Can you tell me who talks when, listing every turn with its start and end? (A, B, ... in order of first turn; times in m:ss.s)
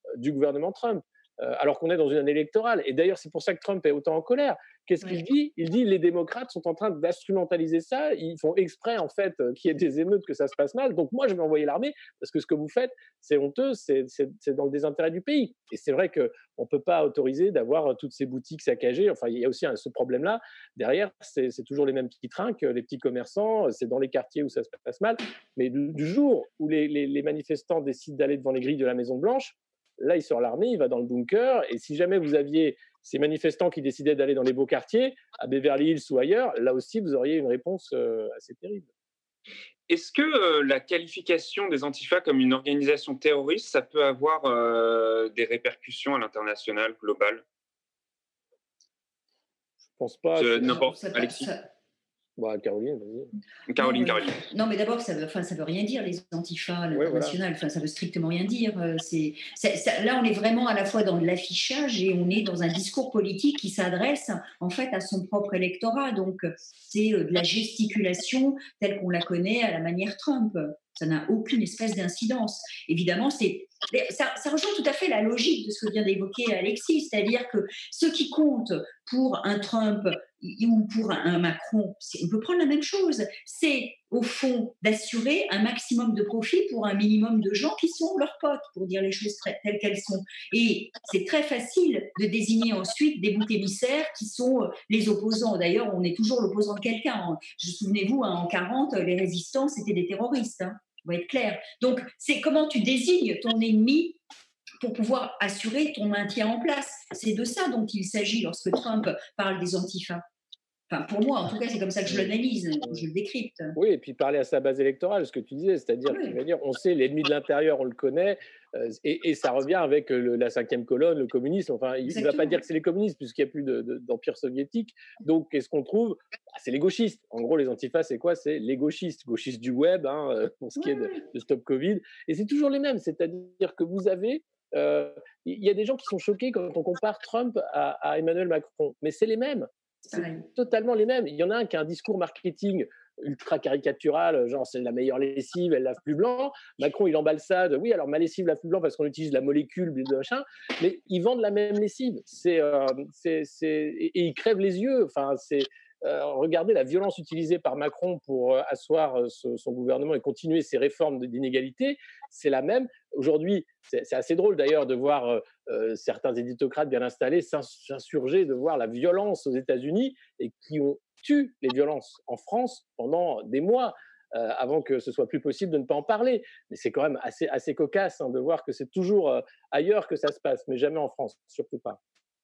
0:00.2-0:38.9 A
0:39.9-0:47.4 B
0:49.9-0:50.8 A
0:50.4-0:51.5 B
0:50.6-0:51.7 C
0:52.4-0:53.3 A
0:53.7-0:54.4 B
0:53.8-1:44.2 C
0:56.9-0:57.4 A
1:44.8-1:50.2 C
1:50.9-1:53.8 C
1:52.1-1:52.3 A
1:53.7-3:02.0 A
1:56.1-1:56.3 C
2:02.1-2:02.6 C
2:20.1-2:20.4 C